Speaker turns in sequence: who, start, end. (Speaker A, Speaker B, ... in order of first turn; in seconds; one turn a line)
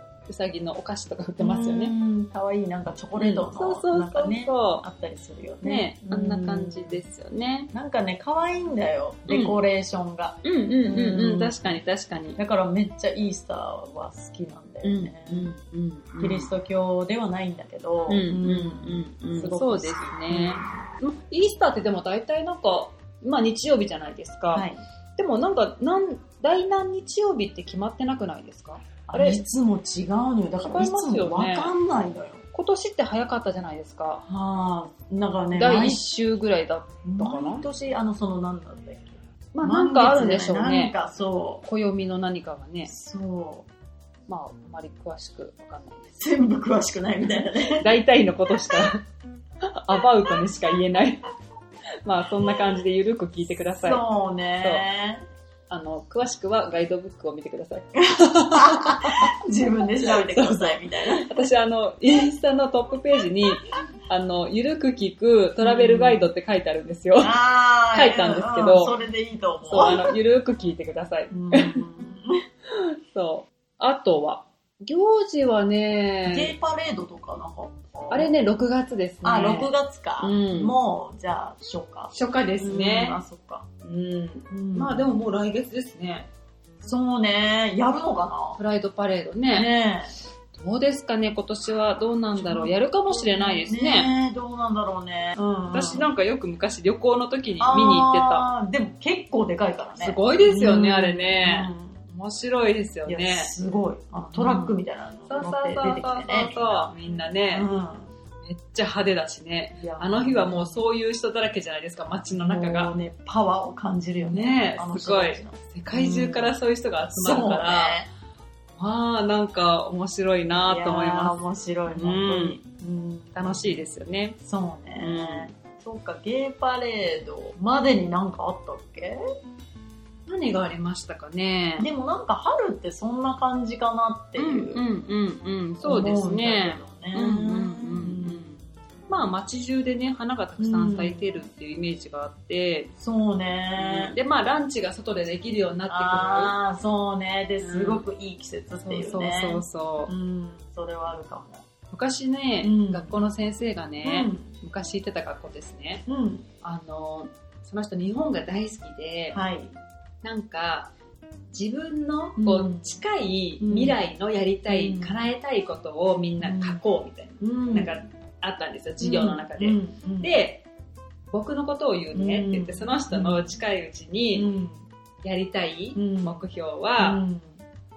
Speaker A: 0.3-1.9
Speaker B: 1.4-7.0
Speaker A: 3.2-4.8
Speaker A: 5.6-7.7
Speaker B: 7.7-11.6
Speaker A: 9.3-9.6
Speaker A: 10.4-12.4
Speaker B: 12.4-15.5
Speaker A: 14.8-16.5
Speaker B: 16.2-20.7
Speaker A: 18.1-24.6
Speaker B: 24.5-24.8
Speaker A: 25.2-29.4
Speaker B: 29.1-32.4
Speaker A: 30.6-31.7
Speaker A: 32.5-34.2
Speaker B: 34.2-36.0
Speaker A: 35.5-37.6
Speaker B: 37.0-41.6
Speaker A: 39.5-40.9
Speaker A: 41.6-42.9
Speaker B: 42.9-43.7
Speaker A: 44.3-46.1
Speaker B: 46.1-47.9
Speaker A: 47.6-49.0
Speaker A: 49.6-51.2
Speaker A: 52.0-54.0
Speaker B: 53.8-55.2
Speaker A: 55.7-59.3
Speaker B: 58.1-61.3
Speaker A: 60.0-67.4
Speaker B: 65.6-66.3
Speaker B: 67.2-70.1
Speaker A: 67.9-68.9
Speaker A: 69.7-71.8
Speaker B: 71.3-72.4
Speaker A: 72.7-76.5
Speaker B: 76.2-78.3
Speaker A: 78.1-80.8
Speaker B: 79.2-83.6
Speaker A: 82.1-83.2
Speaker A: 83.8-86.3
Speaker B: 84.5-85.2
Speaker B: 86.8-88.6
Speaker A: 88.5-89.7
Speaker B: 89.5-90.1
Speaker A: 90.5-94.1
Speaker B: 92.4-96.1
Speaker A: 95.7-98.5
Speaker B: 97.6-102.0
Speaker A: 100.0-103.5
Speaker B: 103.0-106.9
Speaker A: 104.3-104.8
Speaker A: 105.3-107.7
Speaker B: 107.5-108.1
Speaker A: 108.4-112.9
Speaker B: 109.8-110.8
Speaker B: 112.3-116.5
Speaker A: 114.2-118.0
Speaker B: 117.1-118.1
Speaker A: 118.8-122.6
Speaker B: 120.6-123.8
Speaker A: 123.3-124.4
Speaker B: 124.4-129.2
Speaker A: 125.0-125.5
Speaker A: 130.2-131.9
Speaker B: 131.8-134.8
Speaker A: 134.4-142.9
Speaker B: 135.8-138.6
Speaker B: 140.6-141.3
Speaker B: 143.0-144.1
Speaker A: 143.8-146.5
Speaker B: 145.9-151.6
Speaker A: 147.6-148.0
Speaker A: 148.8-150.1
Speaker A: 151.9-156.0
Speaker B: 152.6-153.1
Speaker B: 154.0-154.5
Speaker B: 156.1-156.5
Speaker A: 156.6-159.4
Speaker B: 159.3-159.7
Speaker A: 160.2-160.9
Speaker A: 161.5-170.7
Speaker B: 162.4-162.9
Speaker B: 163.6-164.0
Speaker B: 164.7-165.2
Speaker B: 166.4-166.8
Speaker B: 167.4-167.9
Speaker B: 169.0-170.3
Speaker A: 171.3-174.5
Speaker B: 172.1-173.5
Speaker B: 174.3-174.8
Speaker A: 175.2-177.2
Speaker B: 175.9-176.5
Speaker B: 177.0-177.6